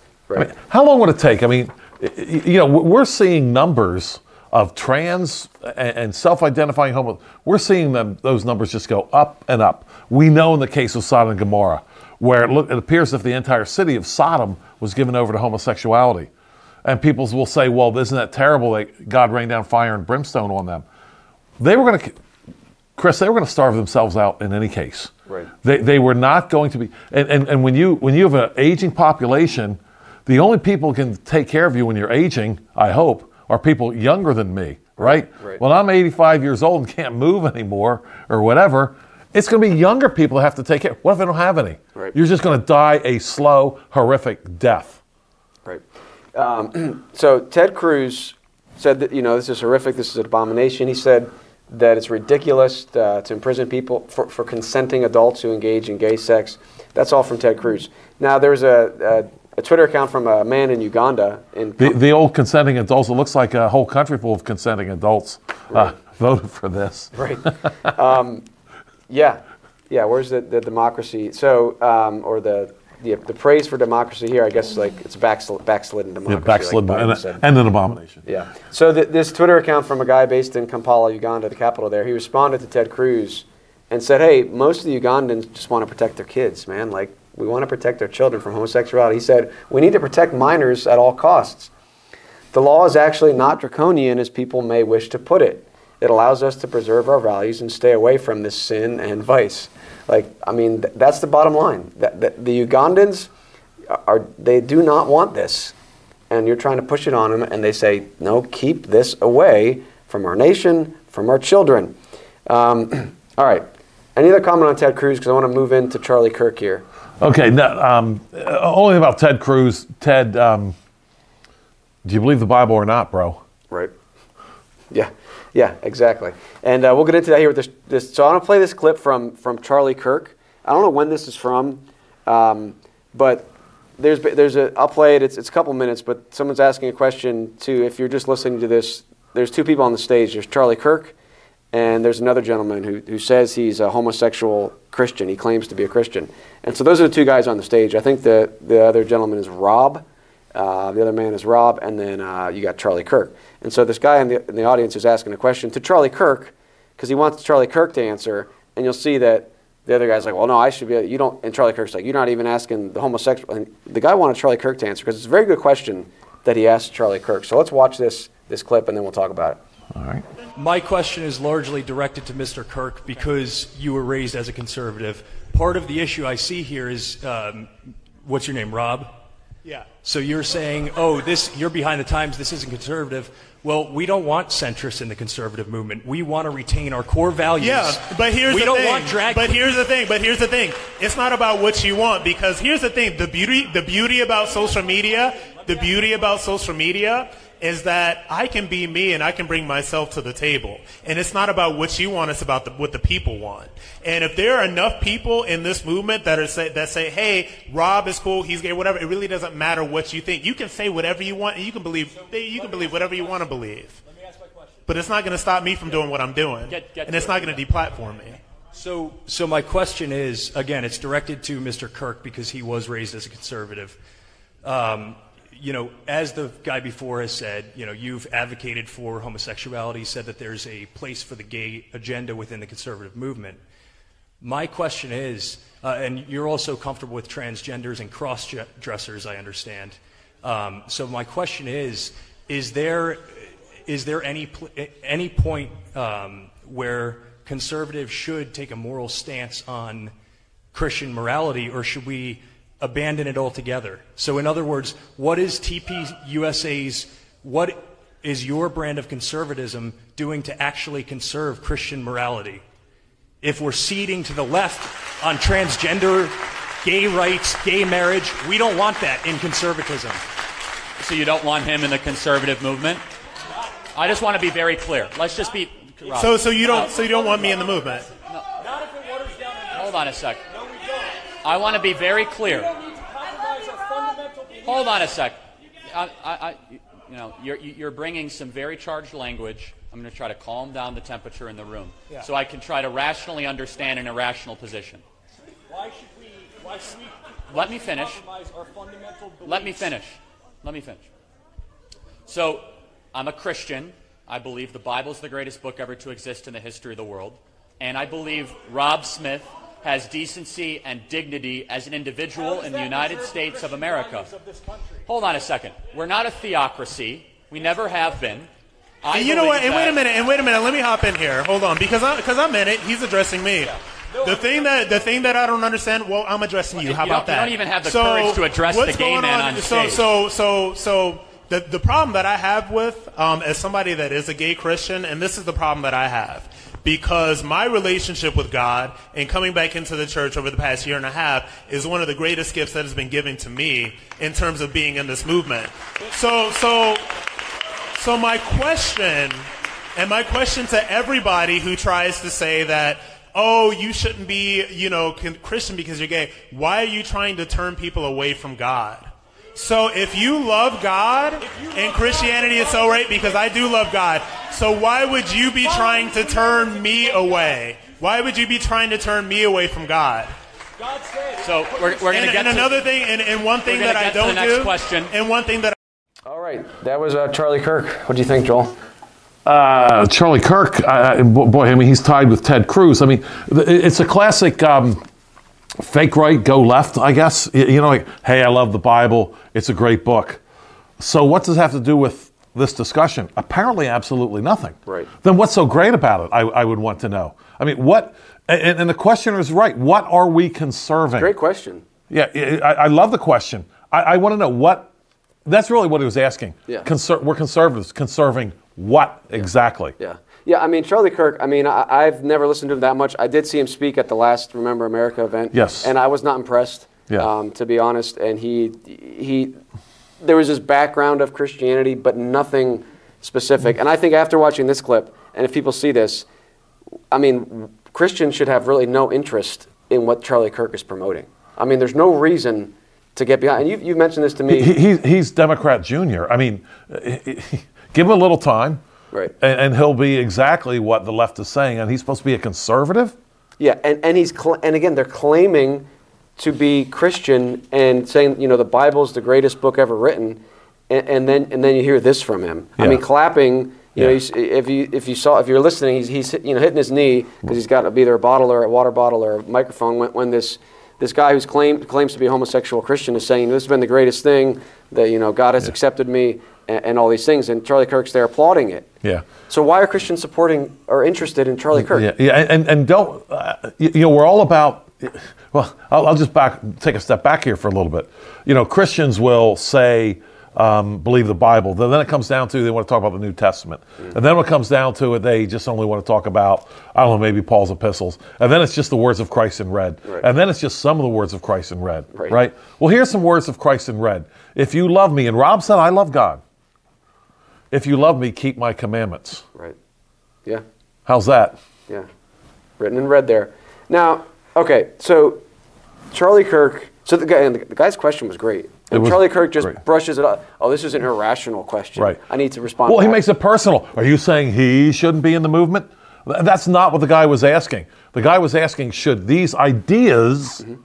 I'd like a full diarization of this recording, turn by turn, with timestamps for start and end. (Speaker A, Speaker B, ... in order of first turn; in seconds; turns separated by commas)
Speaker A: 0.4-16.3, Speaker A: 16.8-20.9, Speaker A: 21.6-22.2, Speaker A: 23.0-25.1, Speaker A: 25.6-45.0, Speaker B: 35.0-35.6, Speaker B: 46.3-62.0, Speaker A: 61.8-67.2, Speaker B: 67.1-68.4, Speaker B: 69.1-77.4, Speaker A: 76.3-78.2, Speaker B: 78.3-91.7, Speaker B: 92.5-103.3, Speaker B: 103.9-105.7, Speaker B: 106.3-116.8, Speaker A: 117.2-120.8, Speaker A: 122.0-123.4, Speaker B: 124.9-141.2, Speaker B: 141.7-150.0, Speaker B: 150.6-169.6, Speaker A: 169.9-170.2, Speaker C: 170.6-179.1, Speaker C: 180.0-189.6, Speaker D: 187.6-214.0, Speaker C: 214.2-214.8, Speaker D: 214.9-218.4, Speaker E: 216.7-217.7, Speaker C: 218.7-224.0, Speaker C: 224.6-233.6, Speaker C: 234.4-250.1, Speaker C: 250.7-262.6, Speaker C: 263.4-270.2, Speaker E: 271.0-273.0, Speaker E: 273.9-277.0, Speaker D: 276.2-278.1, Speaker C: 278.6-281.1, Speaker E: 279.7-280.4, Speaker E: 281.4-282.7, Speaker C: 282.5-285.0, Speaker E: 284.6-295.0, Speaker C: 295.7-299.9, Speaker E: 297.5-298.2, Speaker E: 299.4-301.1, Speaker E: 302.3-314.3, Speaker C: 312.4-315.1, Speaker E: 315.1-318.5, Speaker E: 319.0-320.1, Speaker D: 319.1-347.1, Speaker C: 324.1-324.8, Speaker E: 326.8-330.1, Speaker D: 348.0-349.4, Speaker D: 350.0-370.3, Speaker C: 361.4-363.4, Speaker C: 365.6-367.6, Speaker C: 370.8-372.0, Speaker E: 371.4-372.8, Speaker D: 372.1-375.8, Speaker E: 373.6-375.1, Speaker B: 376.3-378.8, Speaker A: 379.4-385.0, Speaker A: 385.8-390.4, Speaker A: 391.0-401.3, Speaker B: 401.2-401.8, Speaker A: 402.1-404.9, Speaker A: 405.4-410.0, Speaker B: 410.0-419.6, Speaker A: 415.5-415.9, Speaker B: 420.2-426.3, Speaker B: 427.1-434.8, Speaker A: 434.5-438.8, Speaker A: 439.4-443.2, Speaker B: 443.6-468.9, Speaker B: 469.5-472.1, Speaker A: 471.7-496.4, Speaker A: 497.7-499.4, Speaker A: 501.1-501.6, Speaker B: 502.8-505.4, Speaker B: 506.1-513.2, Speaker A: 508.9-509.8, Speaker A: 512.9-520.6